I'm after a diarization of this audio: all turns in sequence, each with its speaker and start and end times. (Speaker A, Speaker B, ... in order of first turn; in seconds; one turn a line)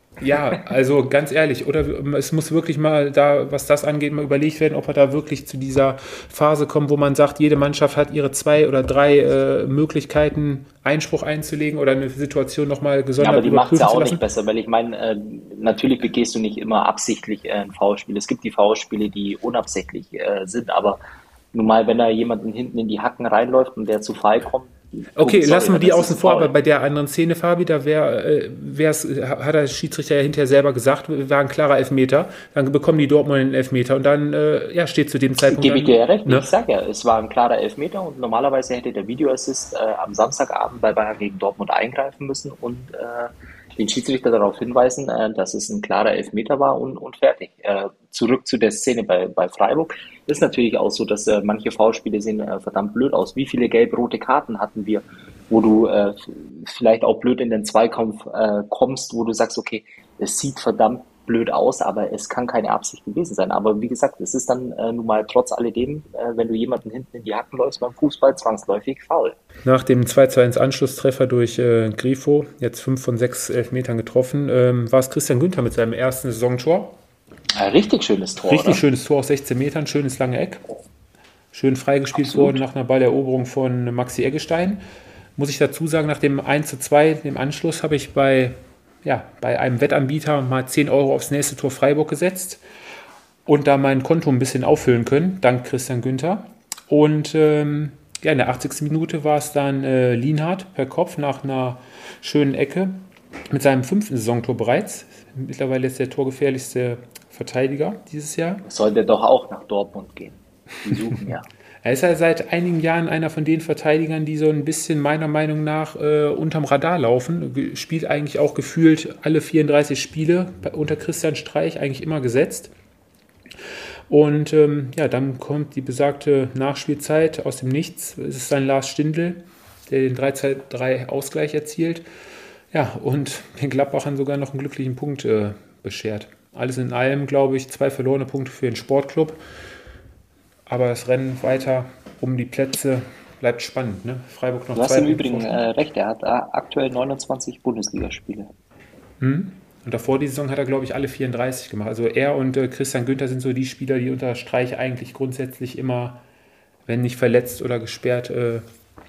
Speaker A: 0.2-14.2
Speaker B: 13.2-21.0
Speaker B: 21.5-26.5
Speaker A: 25.1-36.5
Speaker B: 35.5-69.4
Speaker A: 69.6-77.0
Speaker B: 77.6-78.8
Speaker A: 78.5-80.6
Speaker A: 81.5-84.8
Speaker B: 82.2-82.6
Speaker A: 85.4-92.6
Speaker A: 93.5-108.6
Speaker B: 108.7-111.5
Speaker A: 111.8-122.7
Speaker A: 124.1-132.1
Speaker A: 132.7-139.4
Speaker A: 140.7-145.6
Speaker B: 144.8-148.5
Speaker A: 149.2-156.2
Speaker A: 156.9-158.7